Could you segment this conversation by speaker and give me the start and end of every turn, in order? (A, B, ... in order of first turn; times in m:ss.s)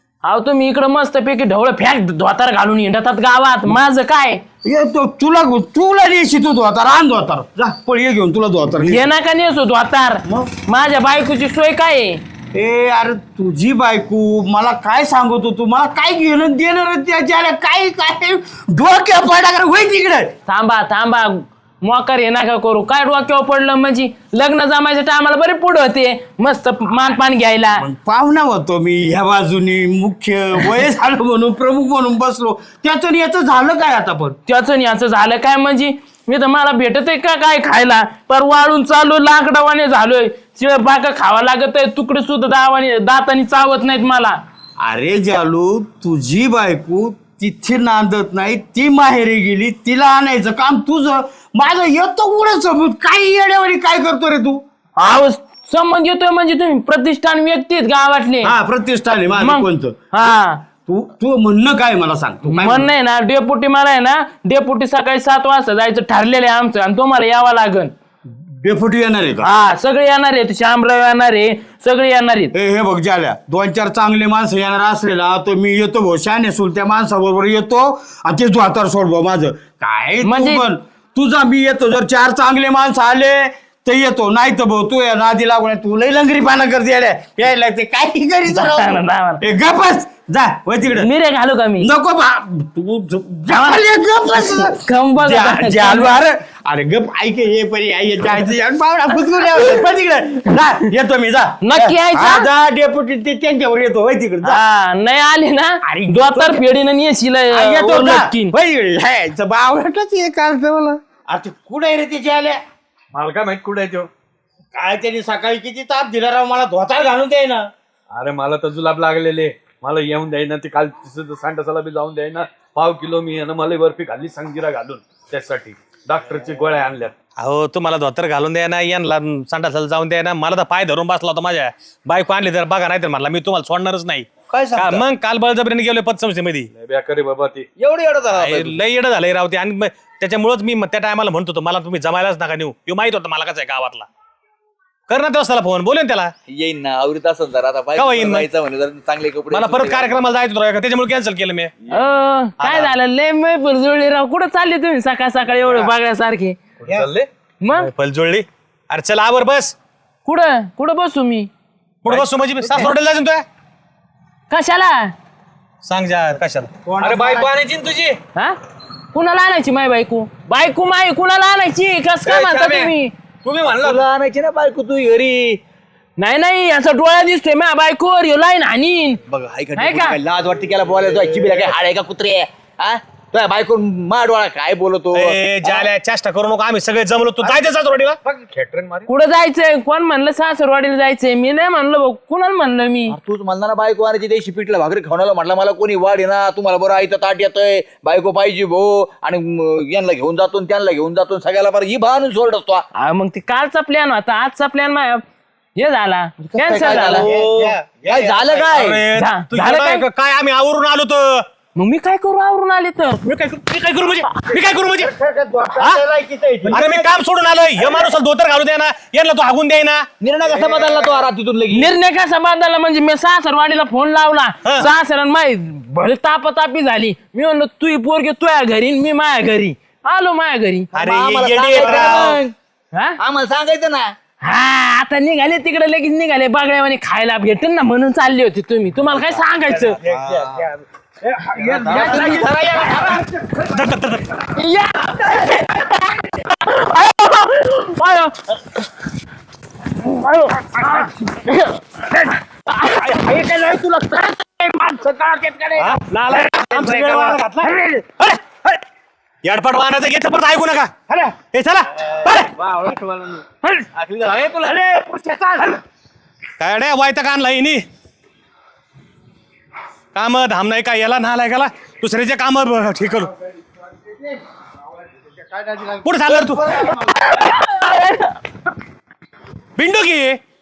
0:00.2-0:04.4 A
0:04.6-0:09.0 B
0:08.8-0:12.2 A
0:12.5-0:20.3 B
0:20.5-0:27.8 A
0:27.8-0:34.4 B
0:34.5-0:44.4 A
0:44.8-0:54.6 B
0:55.0-0:58.6 A
0:58.4-1:00.3 B
0:59.4-1:00.6 A
1:00.8-1:02.9 B
1:02.5-1:07.9 A
1:08.6-1:09.5 B
1:09.4-1:12.5 A
1:12.5-1:31.1 B
1:20.2-1:20.6 A
1:28.5-1:29.4 A
1:30.9-1:31.9 A
1:31.8-1:44.6 B
1:34.4-1:36.1 A
1:41.6-1:42.5 A
1:44.4-1:48.5 A
1:45.8-1:46.6 B
1:47.5-1:52.6 B
1:53.1-1:54.1 C
1:54.7-1:57.7 B
1:58.1-2:07.1 C
2:07.4-2:16.7 D
2:14.5-2:15.0 E
2:16.7-2:17.7 C
2:17.8-2:18.8 E
2:18.3-2:24.1 D
2:25.1-2:26.3 D
2:26.5-2:30.2 E
2:28.0-2:28.4 D
2:29.5-2:31.7 D
2:31.9-2:36.6 A
2:32.6-2:32.9 D
2:36.8-2:37.3 C
2:37.6-2:37.9 A
2:37.8-2:39.7 D
2:40.2-2:41.5 A
2:42.0-2:43.4 D
2:44.5-2:45.1 A
2:45.8-2:46.7 D
2:46.8-2:47.5 B
2:47.0-2:48.2 C
2:49.1-2:53.1 A
2:52.2-2:54.0 C
2:53.6-2:55.6 E
2:56.2-2:59.2 A
2:59.3-3:05.9 E
2:59.8-3:00.2 A
3:05.1-3:08.2 D
3:08.5-3:09.0 C
3:09.1-3:13.2 A
3:13.1-3:22.8 E
3:23.0-3:25.2 A
3:25.8-3:27.2 A
3:26.5-3:29.0 E
3:27.0-3:27.7 D
3:27.2-3:28.3 B
3:28.7-3:31.4 D
3:29.1-3:30.0 A
3:31.8-3:33.2 A
3:33.2-3:35.1 D
3:35.0-3:37.0 B
3:36.7-3:40.1 D
3:40.2-3:41.9 E
3:40.6-3:40.8 B
3:41.7-3:50.9 A
3:50.9-3:52.5 E
3:50.9-3:52.4 D
3:52.9-3:53.2 A
3:53.2-3:54.1 E
3:54.4-4:00.0 A
4:00.0-4:00.7 E
4:00.1-4:00.6 B
4:01.3-4:03.2 B
4:01.6-4:03.2 E
4:01.8-4:02.4 C
4:03.6-4:04.4 D
4:04.6-4:08.8 A
4:10.0-4:13.5 A
4:13.3-4:13.8 B
4:14.8-4:15.6 B
4:15.8-4:17.7 D
4:16.7-4:17.2 E
4:19.4-4:22.5 D
4:22.8-4:23.0 E
4:23.9-4:25.0 E
4:26.6-4:27.8 D
4:30.1-4:33.3 D
4:35.6-4:35.9 B
4:36.0-4:36.8 D
4:37.1-4:38.3 A
4:39.8-4:40.4 D